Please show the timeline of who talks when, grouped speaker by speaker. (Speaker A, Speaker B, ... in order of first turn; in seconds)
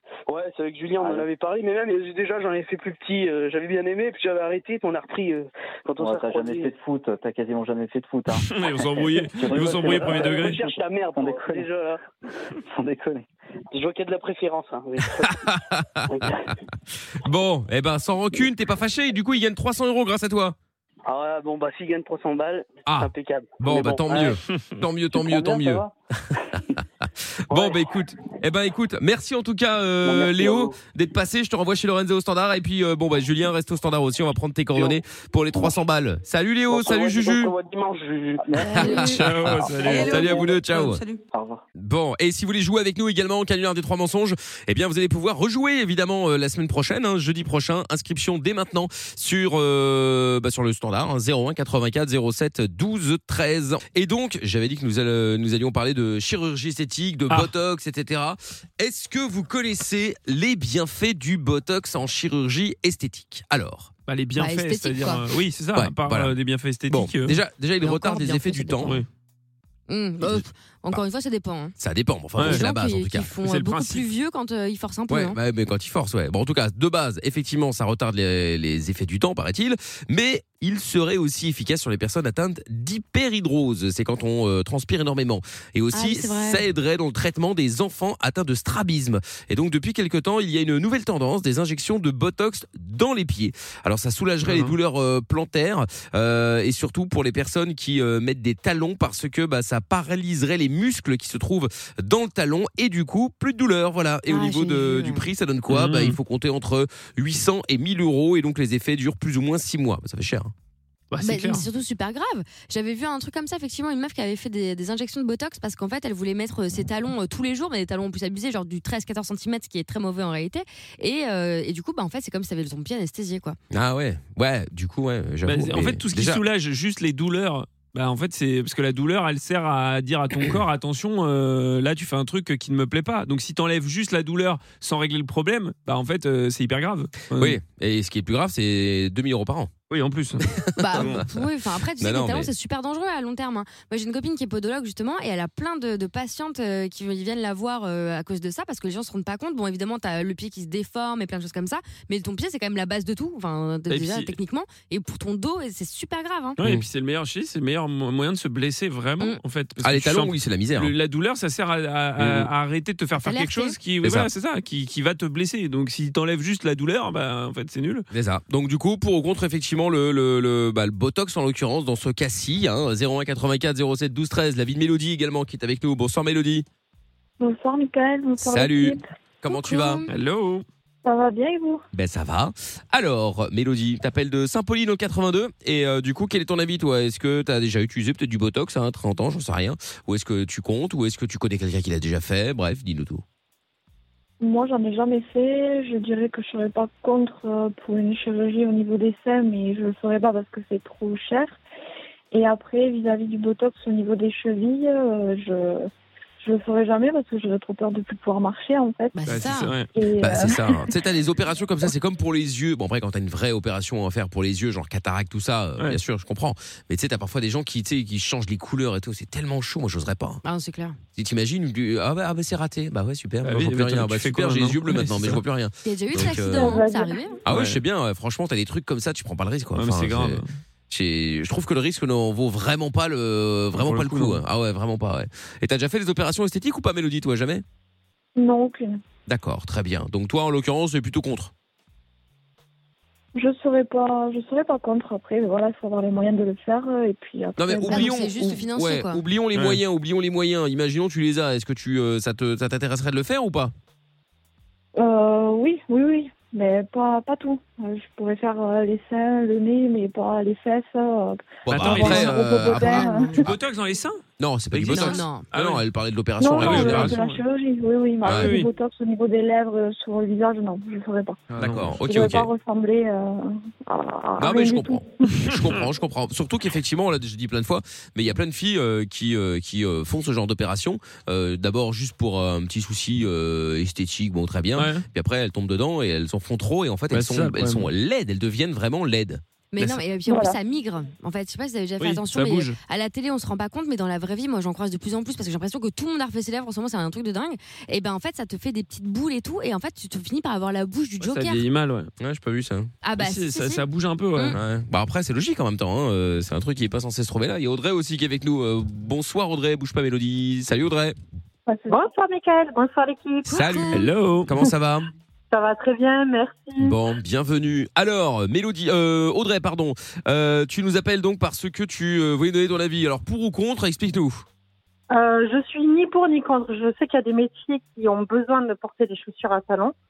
Speaker A: 0.3-6.7, 9.4-12.0, 13.7-15.4, 21.1-24.4, 27.5-27.8, 30.0-30.8, 36.7-38.7
Speaker B: 1.0-1.3, 6.0-11.7, 12.6-13.3, 25.1-25.9, 38.4-39.2, 39.8-40.5, 41.3-41.6
Speaker C: 8.3-10.6, 24.5-24.8, 39.1-40.4, 64.1-67.4, 72.4-72.6, 73.4-74.1, 94.4-94.7, 105.7-106.2, 111.1-111.6, 125.5-137.6, 139.9-141.3, 156.6-168.1, 180.1-180.6, 209.2-209.9, 223.4-225.4, 227.5-227.8, 229.8-230.5, 233.8-234.4, 249.6-249.8, 261.7-262.4, 263.4-264.2, 264.7-265.8, 266.6-267.4, 268.3-268.7, 271.5-272.0, 275.4-275.7, 284.8-285.1, 287.1-287.9, 292.0-292.8, 301.2-302.1, 303.2-304.6, 313.9-314.5
Speaker D: 15.2-16.5, 17.1-20.6, 22.9-37.5, 38.7-41.0, 41.8-63.9, 65.8-66.3, 66.9-69.0, 70.2-71.0, 71.8-73.3, 75.1-110.5, 123.7-126.4, 137.3-139.9, 140.5-141.2, 142.0-142.5, 153.9-154.3, 156.6-156.8, 159.8-160.9, 162.2-162.5, 164.0-164.3, 168.1-176.7, 178.4-180.0, 181.9-193.2, 210.2-220.4, 221.1-226.8, 227.4-237.6, 239.3-241.5, 247.6-253.7, 261.7-263.6, 264.4-267.2, 268.2-268.6, 271.6-272.5, 274.4-289.4, 302.2-302.9, 304.5-311.2, 313.5-315.1, 316.8-324.4
Speaker E: 38.8-41.2
Speaker F: 64.4-65.3, 67.8-69.0, 69.9-71.8, 72.4-75.4, 85.9-86.6, 104.3-105.3, 111.2-123.6, 140.8-156.6, 163.2-163.8, 179.5-180.1, 209.1-209.8, 220.4-221.0, 225.8-227.4, 247.9-249.2, 261.9-263.5, 264.9-265.5, 289.7-301.7, 303.0-304.6, 313.5-313.9
Speaker G: 177.4-179.1, 181.0-181.8, 194.4-201.6, 202.3-205.9, 206.4-209.2, 209.9-210.9, 226.6-227.0, 238.4-239.0, 243.3-248.2, 254.9-263.4, 266.4-271.4, 272.0-275.2, 290.3-290.6, 311.7-312.1
Speaker H: 226.6-226.9, 311.9-313.7, 315.5-317.0, 325.1-329.9